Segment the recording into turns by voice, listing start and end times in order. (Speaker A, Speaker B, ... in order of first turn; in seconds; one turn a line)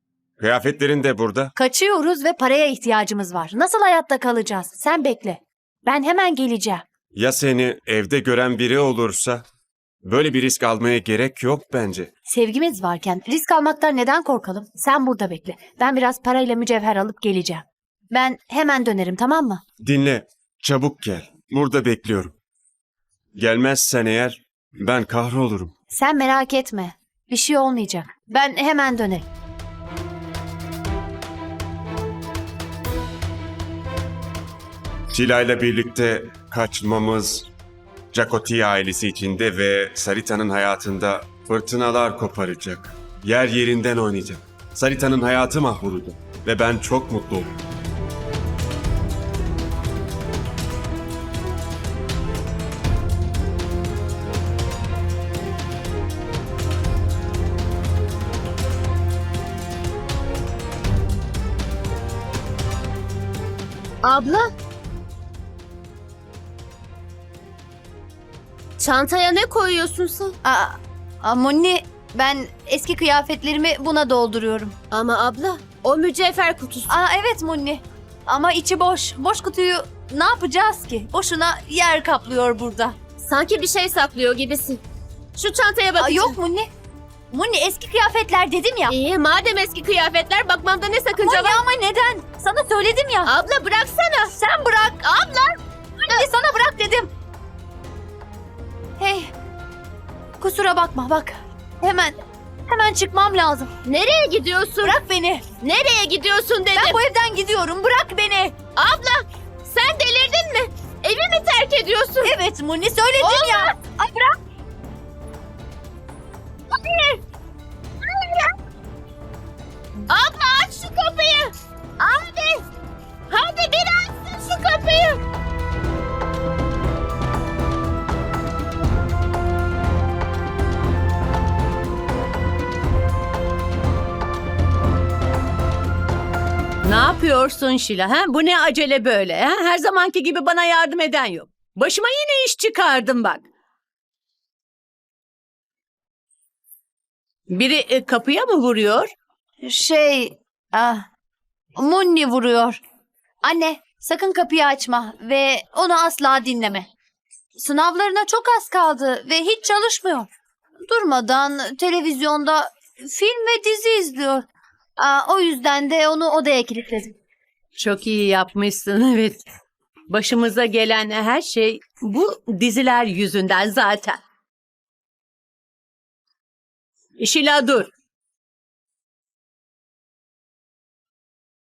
Speaker A: 0.4-1.5
Speaker B: 1.6-6.8
Speaker A: 7.1-9.4
Speaker A: 10.0-12.1
Speaker B: 12.3-19.6
Speaker A: 19.8-22.3
Speaker A: 23.3-25.7
Speaker B: 25.9-29.2
Speaker A: 35.1-37.5
Speaker A: 38.1-47.5
Speaker C: 64.0-64.4
Speaker C: 68.8-70.3
Speaker B: 70.4-74.7
Speaker C: 74.9-76.9
Speaker B: 76.9-82.9
Speaker C: 83.2-84.8
Speaker C: 85.3-86.4
Speaker B: 86.0-86.7
Speaker B: 87.3-88.9
Speaker C: 88.9-91.6
Speaker B: 91.2-93.3
Speaker C: 93.2-94.4
Speaker B: 94.5-95.0
Speaker C: 95.0-95.5
Speaker B: 96.1-97.1
Speaker B: 99.0-99.3
Speaker B: 100.4-103.7
Speaker C: 103.8-105.0
Speaker B: 104.8-105.4
Speaker C: 105.6-107.0
Speaker B: 106.7-108.6
Speaker C: 108.8-112.3
Speaker B: 112.2-114.3
Speaker C: 113.2-113.7
Speaker C: 116.8-117.2
Speaker C: 118.2-118.5
Speaker C: 120.1-122.6
Speaker C: 123.3-125.2
Speaker D: 136.8-143.5
Speaker D: 147.5-149.1
Speaker B: 149.6-151.1
Speaker B: 151.8-152.8
Speaker B: 153.4-156.9
Speaker B: 157.6-160.3
Speaker B: 160.9-164.5
Speaker B: 165.0-167.1
Speaker D: 167.8-169.4
Speaker D: 170.1-174.2
Speaker D: 177.2-177.9